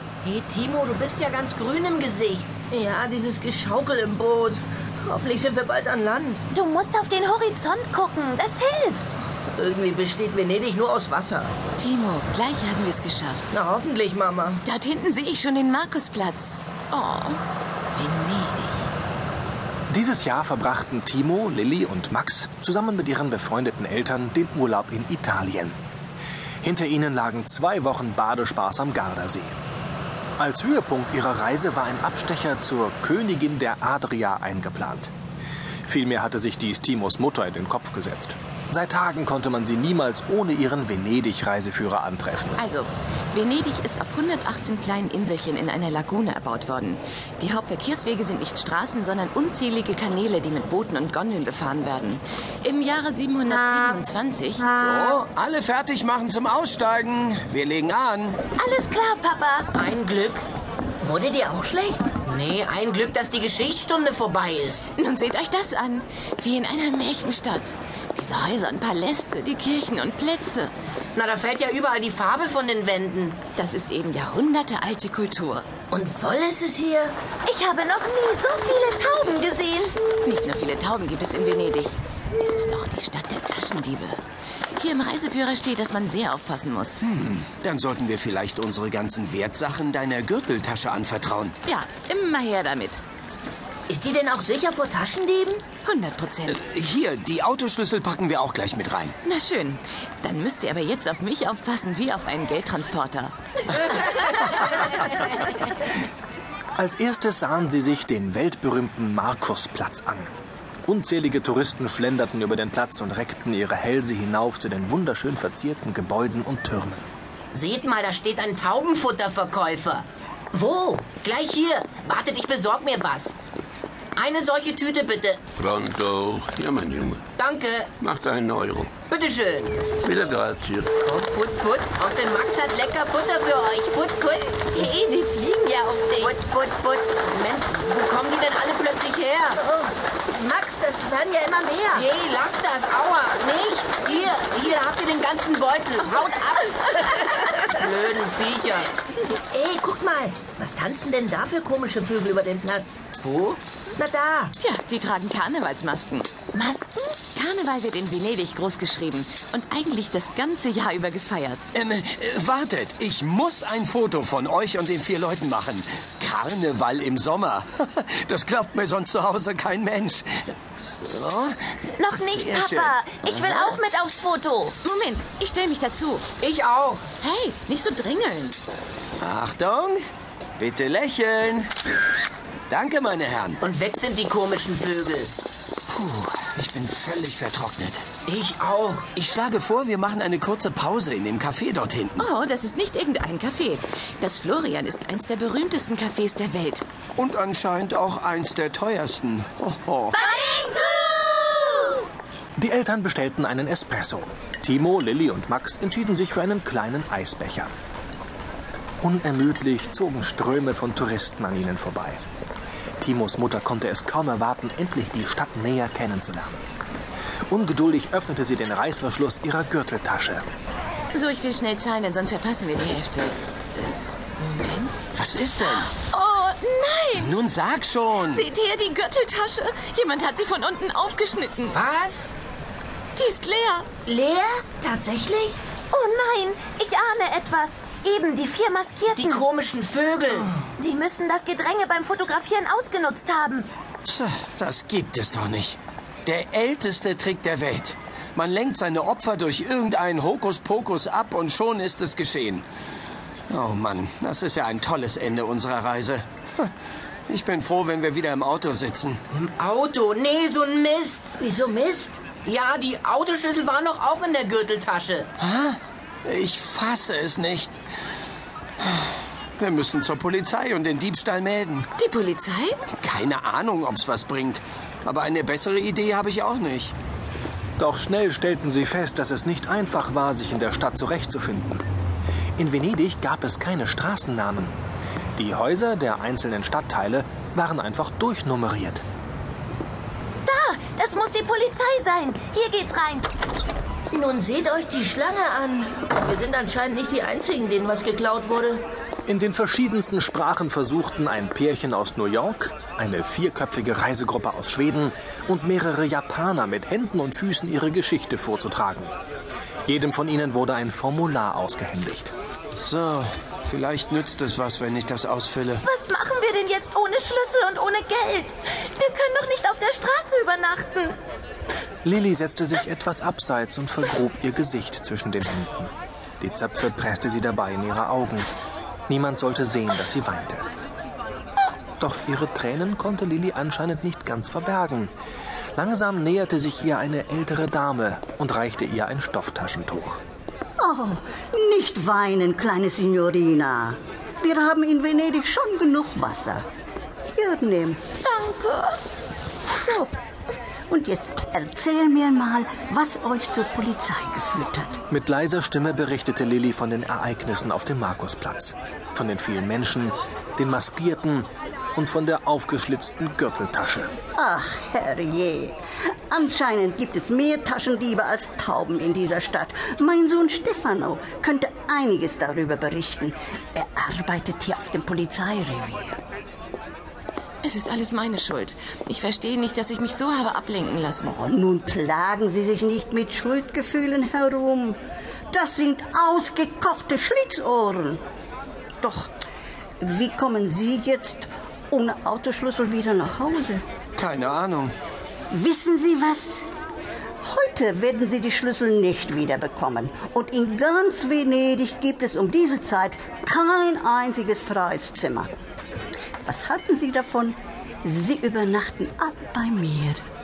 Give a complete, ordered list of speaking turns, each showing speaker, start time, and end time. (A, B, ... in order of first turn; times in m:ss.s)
0:00.2-0:02.5 A
0:02.7-0:06.4 B
0:06.5-0:09.1 C
0:09.5-0:11.5 B
0:11.8-0:13.5 D
0:13.5-0:14.6 B
0:14.6-0:17.4 D
0:17.9-0:18.9 D
0:19.9-0:25.8 E
0:26.6-0:29.5 E
0:30.4-0:35.1 E
0:35.8-0:42.6 E
0:42.6-0:54.7 D
0:54.7-0:58.4 F
0:58.6-0:59.7 C
0:59.7-1:00.4 A
1:01.0-1:02.1 B
1:02.1-1:04.8 A
1:04.9-1:10.7 D
1:11.1-1:13.4 A
1:13.6-1:15.7 D
1:15.9-1:17.2 B
1:17.4-1:19.9 C
1:20.2-1:24.2 D
1:24.8-1:27.0 D
1:27.0-1:31.5 F
1:31.6-1:33.0 D
1:33.9-1:35.6 B
1:35.8-1:36.6 D
1:36.5-1:39.1 F
1:39.2-1:43.3 D
1:43.9-1:44.2 D
1:46.8-1:50.3 E
1:50.9-1:57.1 E
1:57.5-2:00.1 A
2:00.5-2:01.1 B
2:01.1-2:03.3 A
2:04.2-2:05.4 A
2:05.6-2:07.2 G
2:07.4-2:07.9 A
2:08.0-2:08.9 G
2:09.1-2:09.8 A
2:10.0-2:10.9 G
2:11.0-2:14.8 A
2:15.0-2:16.3 D
2:16.2-2:19.6 A
2:19.6-2:22.1 B
2:21.9-2:28.9 A
2:29.3-2:33.2 B
2:33.2-2:33.6 A
2:34.0-2:34.5 B
2:34.6-2:41.7 D
2:41.7-2:53.8 F
2:52.0-2:54.8 C
2:54.8-2:56.2 D
2:56.4-2:57.0 A
2:57.2-2:58.6 D
2:59.2-3:00.0 F
3:00.6-3:01.7 F
3:02.7-3:03.6 F
3:03.6-3:05.3 A
3:05.9-3:08.1 F
3:08.3-3:09.2 A
3:09.2-3:12.2 F
3:12.2-3:16.8 D
3:17.2-3:20.2 F
3:22.6-3:27.7 E
3:29.0-3:32.2 E
3:33.0-3:36.6 E
3:37.5-3:40.5 E
3:41.1-3:45.0 D
3:45.1-3:45.9 F
3:45.8-3:47.3 D
3:47.2-3:48.5 F
3:48.3-3:51.8 D
3:51.7-3:52.3 A
3:53.2-3:53.9 D
3:54.1-3:55.6 B
3:55.9-3:59.5 C
3:59.1-4:00.5 A
4:00.8-4:03.7 C
4:04.0-4:12.6 F
4:13.5-4:16.7 F
4:17.3-4:19.2 F
4:19.3-4:21.4 A
4:21.4-4:22.2 B
4:22.4-4:25.3 A
4:25.4-4:27.8 F
4:28.8-4:31.9 F
4:32.0-4:32.8 D
4:33.0-4:36.9 F
4:37.8-4:41.8 E
4:42.6-4:44.8 E
4:45.4-4:49.0 E
4:50.4-4:53.3 C
4:54.1-4:58.8 B
4:59.2-5:09.1 E
5:09.8-5:12.3 E
5:12.8-5:15.8 F
5:15.8-5:21.2 C
5:22.0-5:28.5 E
5:29.1-5:30.7 E
5:32.0-5:35.1 E
5:35.8-5:40.2 E
5:40.8-5:46.6 H
5:47.3-5:48.0 H
5:48.2-5:49.0 D
5:49.8-5:50.1 H
5:50.9-5:55.0 H
5:55.1-6:04.1 E
6:04.3-6:05.8 H
6:06.3-6:16.2 H
6:17.6-6:21.4 D
6:21.2-6:25.0 H
6:25.5-6:28.2 H
6:29.0-6:29.3 H
6:30.0-6:33.8 H
6:34.2-6:34.9 F
6:35.5-6:36.6 H
6:37.4-6:45.5 H
6:46.4-6:50.2 H